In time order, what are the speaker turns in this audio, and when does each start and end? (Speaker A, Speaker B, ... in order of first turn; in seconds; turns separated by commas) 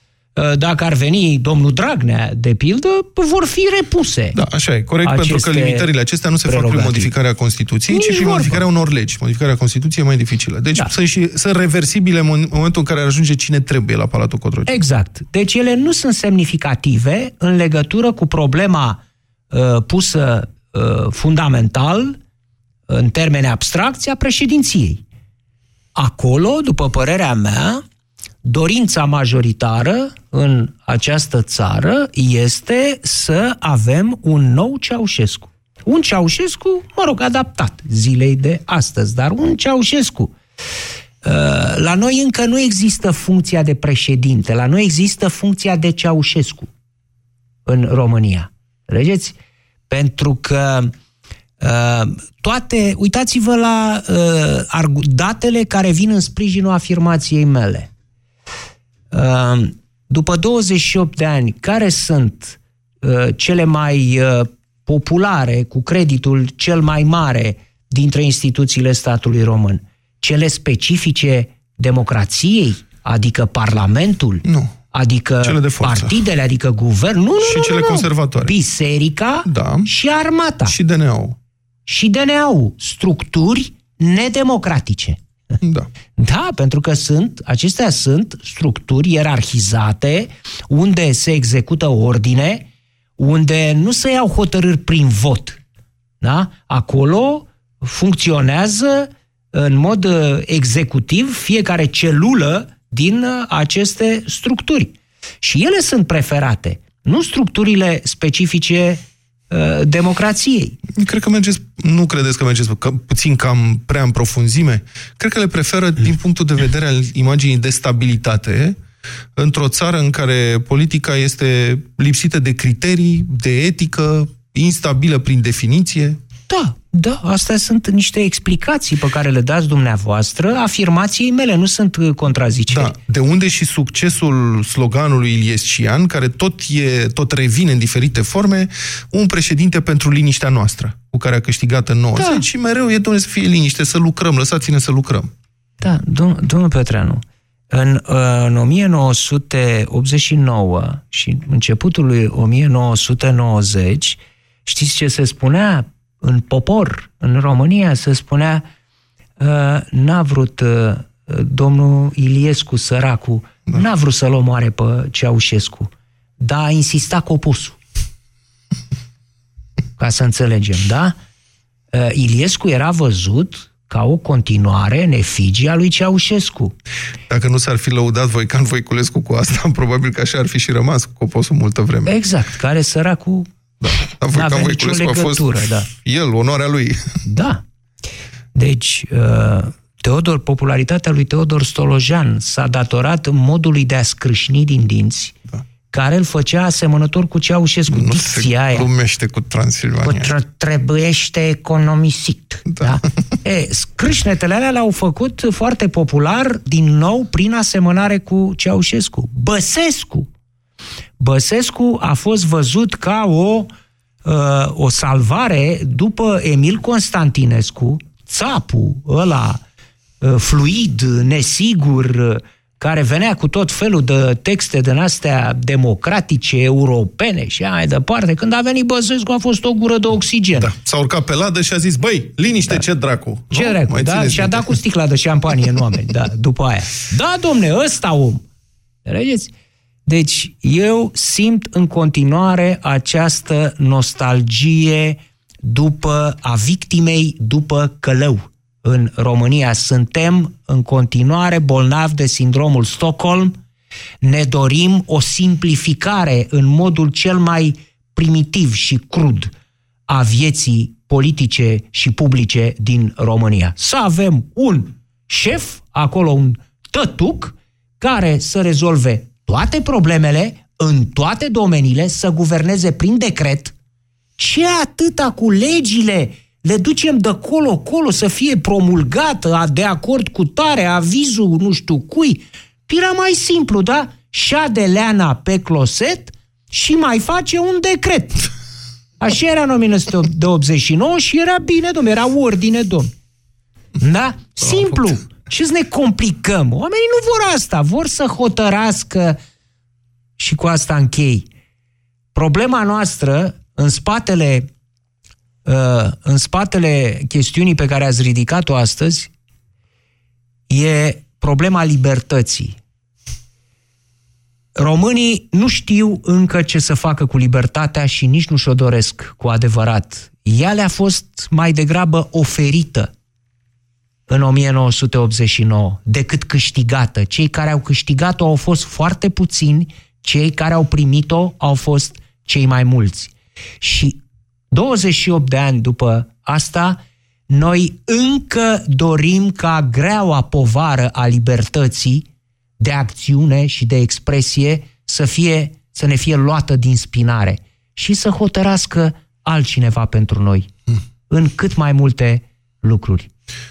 Speaker A: 0.4-4.4, Speaker B: 4.3-14.8, Speaker A: 5.0-5.9, Speaker A: 6.5-7.1, Speaker A: 7.9-8.6, Speaker A: 14.7-19.0, Speaker A: 19.5-22.2, Speaker A: 22.9-25.0, Speaker A: 25.9-27.8, Speaker A: 28.4-40.3, Speaker A: 41.2-46.7, Speaker A: 47.7-49.4, Speaker A: 49.9-50.9, Speaker A: 51.6-57.9, Speaker A: 59.1-80.8, Speaker B: 74.5-74.8, Speaker B: 75.4-76.2, Speaker B: 77.4-78.5, Speaker B: 79.5-79.9, Speaker B: 80.7-81.4, Speaker A: 81.9-85.2, Speaker B: 85.6-85.9, Speaker A: 86.2-92.7, Speaker A: 93.2-95.6, Speaker A: 96.2-110.8, Speaker B: 111.0-118.8, Speaker B: 119.4-126.2, Speaker A: 126.5-132.9, Speaker B: 132.7-145.3, Speaker A: 142.2-142.4, Speaker A: 145.8-158.7, Speaker A: 159.4-167.8, Speaker A: 170.0-171.2, Speaker A: 171.9-176.7, Speaker B: 177.3-182.2, Speaker A: 182.1-183.5, Speaker B: 183.8-187.0, Speaker A: 184.3-185.9, Speaker A: 187.3-187.6, Speaker A: 188.6-195.4, Speaker A: 195.9-198.9, Speaker B: 197.9-200.3, Speaker A: 200.0-210.3, Speaker B: 202.7-203.0, Speaker A: 211.2-213.7, Speaker A: 214.2-219.6, Speaker A: 220.2-230.7, Speaker B: 230.6-234.8, Speaker A: 233.5-238.4, Speaker A: 239.1-239.5, Speaker A: 240.1-253.6, Speaker A: 254.2-259.5, Speaker A: 260.1-273.8, Speaker A: 274.4-288.5, Speaker A: 289.2-293.1, Speaker A: 294.0-299.4, Speaker A: 300.4-301.5, Speaker A: 302.3-304.7, Speaker A: 305.6-309.3, Speaker A: 310.7-312.8, Speaker A: 314.8-323.1, Speaker A: 324.3-334.2, Speaker A: 334.7-342.3, Speaker A: 342.8-350.7, Speaker A: 351.3-353.3